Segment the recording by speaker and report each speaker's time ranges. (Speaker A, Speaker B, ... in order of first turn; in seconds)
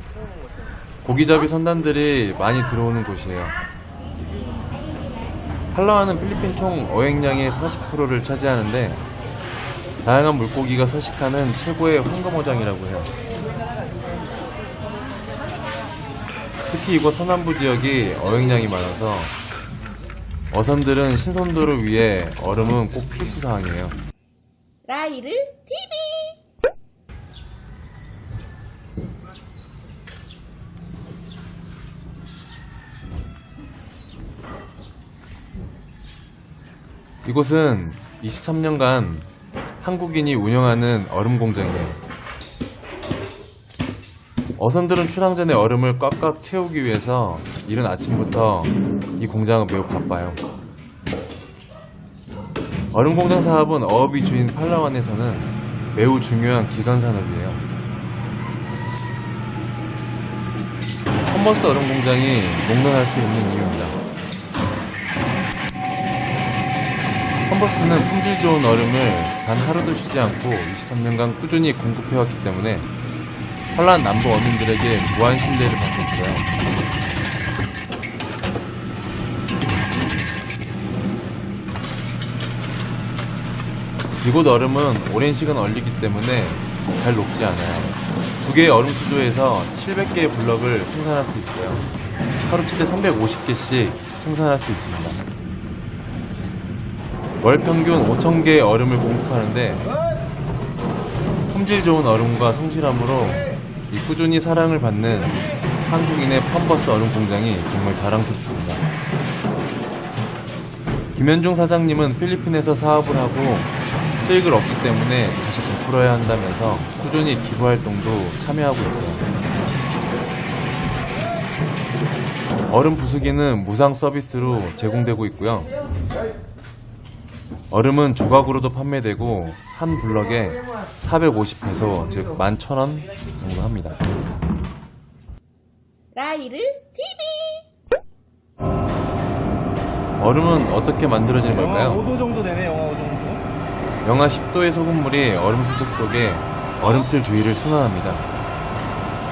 Speaker A: 1.0-3.5, 5.7-9.0, 10.0-13.1, 16.7-19.3, 20.5-23.9, 37.2-39.2, 39.8-42.0, 44.6-50.4, 52.9-57.6, 61.3-64.0, 67.5-72.9, 73.7-76.5, 84.2-91.8, 92.4-95.2, 97.4-99.8, 101.5-108.8, 111.1-119.2, 122.7-125.7, 127.7-134.0, 140.2-142.0, 144.0-148.2
Speaker B: 24.8-26.4, 136.1-137.7
Speaker C: 141.5-143.4, 146.8-147.1